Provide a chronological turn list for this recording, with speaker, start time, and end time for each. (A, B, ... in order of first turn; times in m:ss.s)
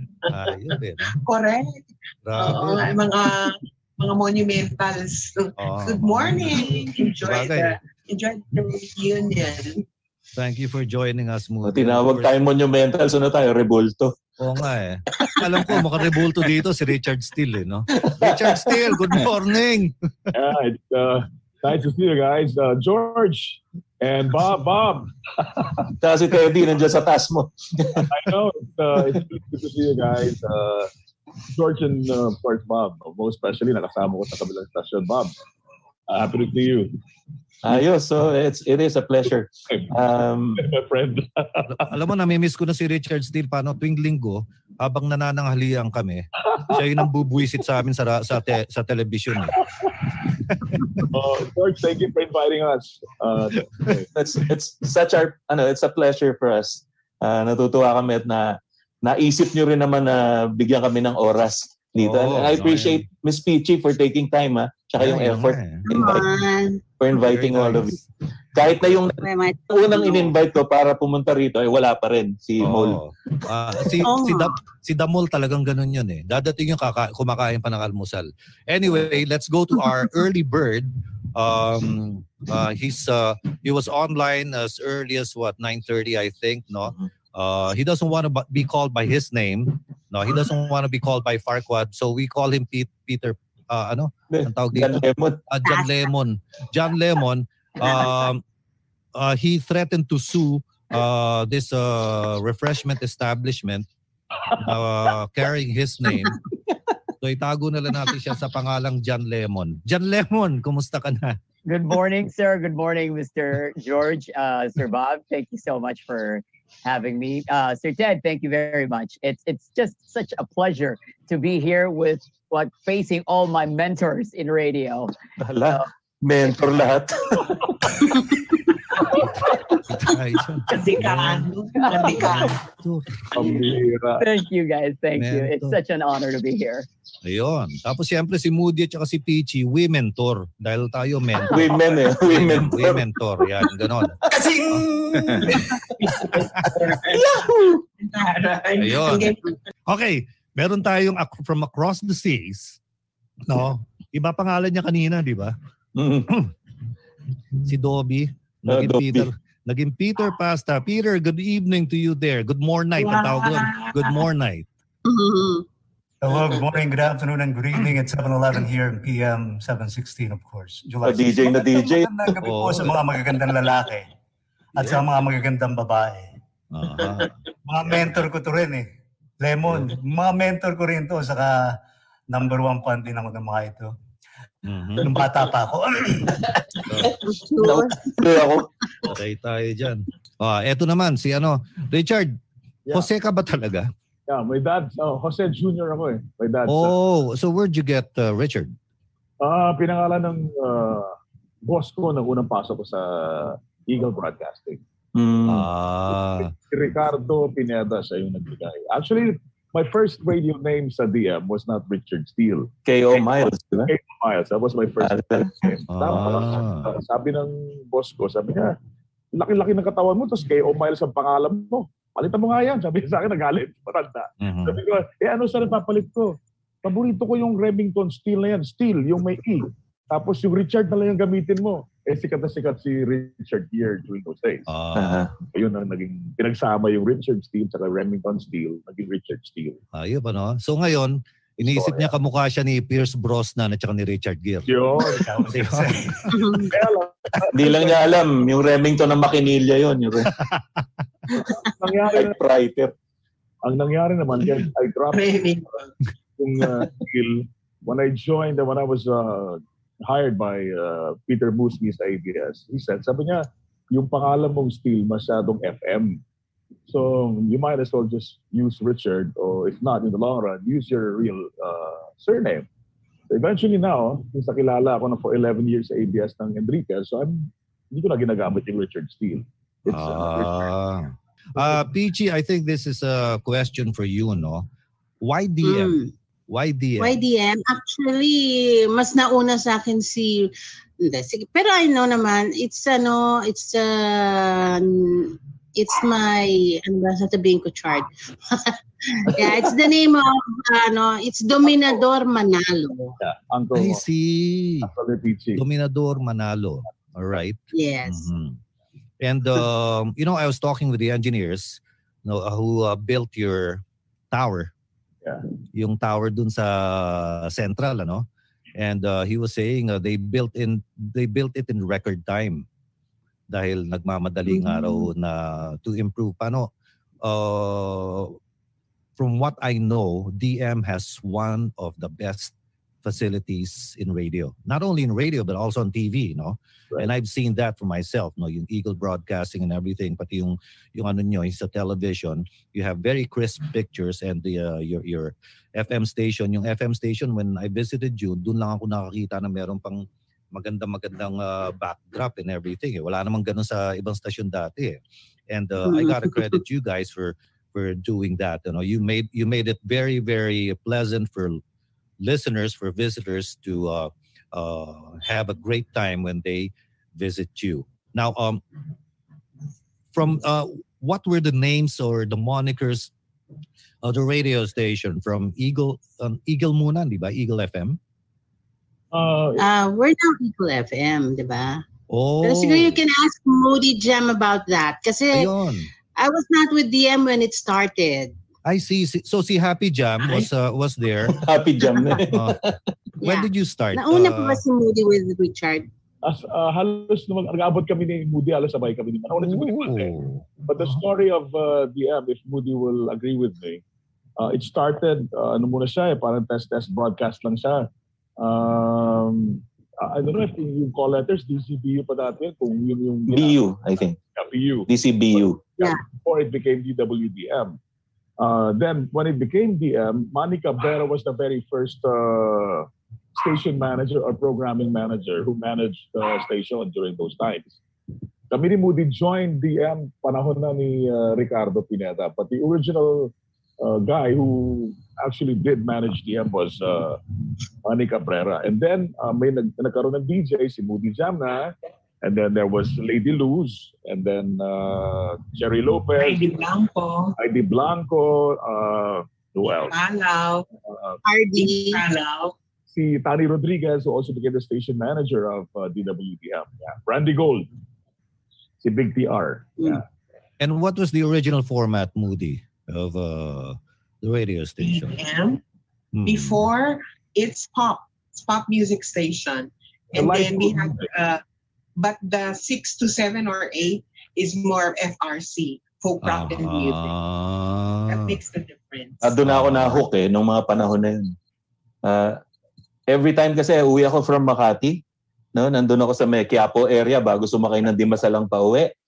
0:00.3-0:01.2 A
0:00.3-0:09.8 B
0:02.2-0:03.0 A
0:05.6-0:07.8 A
0:10.4-0:12.3 A
0:11.6-0:14.2 C
0:14.4-0:19.9 A
0:18.0-0:18.7 C
0:20.3-0:25.9 D
0:26.0-0:28.1 C
0:28.1-0:30.9 D
0:31.5-0:35.3 D
0:36.1-0:36.9 D
0:37.6-0:40.6 C
0:40.6-0:41.9 D
0:41.7-0:49.6 A
0:50.5-0:51.1 A
0:51.1-0:54.1 D
0:54.1-1:06.2 C
1:02.0-1:03.0 A
1:05.0-1:06.2 A
1:05.9-1:06.8 E
1:07.0-1:08.0 C
1:07.1-1:08.0 A
1:08.5-1:09.2 C
1:08.6-1:08.9 A
1:09.2-1:10.4 E
1:09.7-1:13.0 C
1:12.6-1:38.4 A
1:14.0-1:14.5 E
1:34.3-1:35.4 C
1:35.6-1:36.0 E
1:39.2-1:43.9 A
1:44.5-1:46.4 A
1:47.2-1:51.4 A
1:51.6-2:05.1 F
2:05.4-2:07.6 C
2:09.2-2:13.4 A
2:10.7-2:12.6 B
2:13.3-2:14.2 D
2:14.2-2:16.9 F
2:15.2-2:15.8 A
2:17.2-2:25.4 A
2:21.5-2:23.1 C
2:24.3-2:25.8 G
2:25.4-2:29.5 B
2:28.8-2:32.8 A
2:33.5-2:35.5 A
2:36.0-2:36.3 C
2:37.6-2:44.6 A
2:38.7-2:39.3 C
2:43.0-2:44.2 B
2:45.0-2:45.6 E
2:46.2-2:54.1 G
2:51.0-2:52.1 C
2:52.4-2:53.0 A
2:54.8-2:56.3 G
2:56.7-2:57.3 A
2:57.6-2:58.9 G
2:57.9-2:58.1 A
2:59.4-3:03.9 G
3:04.6-3:05.1 A
3:05.0-3:06.4 G
3:06.8-3:07.2 A
3:07.2-3:08.4 E
3:07.6-3:08.7 C
3:09.0-3:12.4 A
3:12.9-3:13.9 A
3:14.3-3:17.0 D
3:16.7-3:18.8 A
3:19.4-3:21.1 D
3:21.6-3:24.8 D
3:25.1-3:25.6 C
3:25.4-3:26.5 A
3:26.7-3:38.8 D
3:32.9-3:33.9 C
3:35.0-3:35.7 C
3:35.9-3:37.0 A
3:39.3-3:54.6 D
3:44.4-3:44.8 A
3:54.7-3:55.3 A
3:54.9-3:55.3 C
3:55.5-3:59.8 D
3:59.9-4:04.7 A
4:01.6-4:02.1 D
4:04.6-4:05.3 D
4:05.1-4:06.6 G
4:05.5-4:06.1 A
4:06.3-4:06.7 E
4:06.7-4:08.2 D
4:07.5-4:10.3 C
4:11.8-4:12.4 D
4:12.1-4:12.9 C
4:13.6-4:15.4 D
4:15.1-4:15.8 B
4:16.4-4:26.2 D
4:26.9-4:32.7 D
4:33.3-4:40.7 D
4:39.9-4:44.7 A
4:41.6-4:41.8 D
4:45.2-4:46.0 A
4:45.6-4:46.1 E
4:46.5-4:47.2 A
4:47.0-5:03.2 E
5:03.2-5:04.0 D
5:03.7-5:04.9 A
5:04.8-5:05.6 D
5:05.6-5:08.6 A
5:07.7-5:08.3 E
5:09.2-5:14.7 A
5:15.7-5:18.2 A
5:18.8-5:22.6 A
5:23.5-5:26.7 A
5:24.5-5:25.1 E
5:27.2-5:28.4 A
5:29.2-5:32.5 A
5:33.0-5:55.0 A
5:55.5-6:01.6 A
5:55.8-5:56.6 E
6:02.2-6:08.6 A
6:10.1-6:13.1 A
6:14.0-6:18.0 A
6:19.1-6:19.6 D
6:19.6-6:21.8 E
6:22.1-6:23.0 A
6:22.4-6:25.6 E
6:25.3-6:25.9 A
6:26.2-6:28.3 E
6:28.6-6:31.4 A
6:31.3-6:32.8 C
6:32.2-6:34.6 A
6:33.2-6:35.9 E
6:36.2-6:40.1 D
6:39.4-6:41.0 A
6:40.6-6:43.8 D
6:44.4-6:53.6 D
6:53.3-6:54.2 C
6:54.4-6:57.8 D
6:54.9-6:55.6 C
6:58.4-7:07.8 D
7:08.5-7:17.2 D
7:17.8-7:26.6 D
7:26.2-7:27.4 B
7:27.4-7:30.0 D
7:29.9-7:30.6 B
7:30.9-7:31.2 D
7:31.2-7:32.0 E
7:31.6-7:32.5 B
7:32.9-7:37.7 D
7:38.8-7:40.0 D
7:40.6-7:45.2 A
7:44.8-7:45.6 B
7:46.1-7:46.6 A
7:46.2-7:51.4 B
7:50.1-7:51.1 D
7:52.0-7:57.1 B
7:56.2-7:58.4 A
7:58.1-7:59.3 B
7:59.2-8:01.3 C
7:59.4-8:00.0 A
8:02.0-8:02.4 C
8:03.1-8:05.0 C
8:05.6-8:08.9 C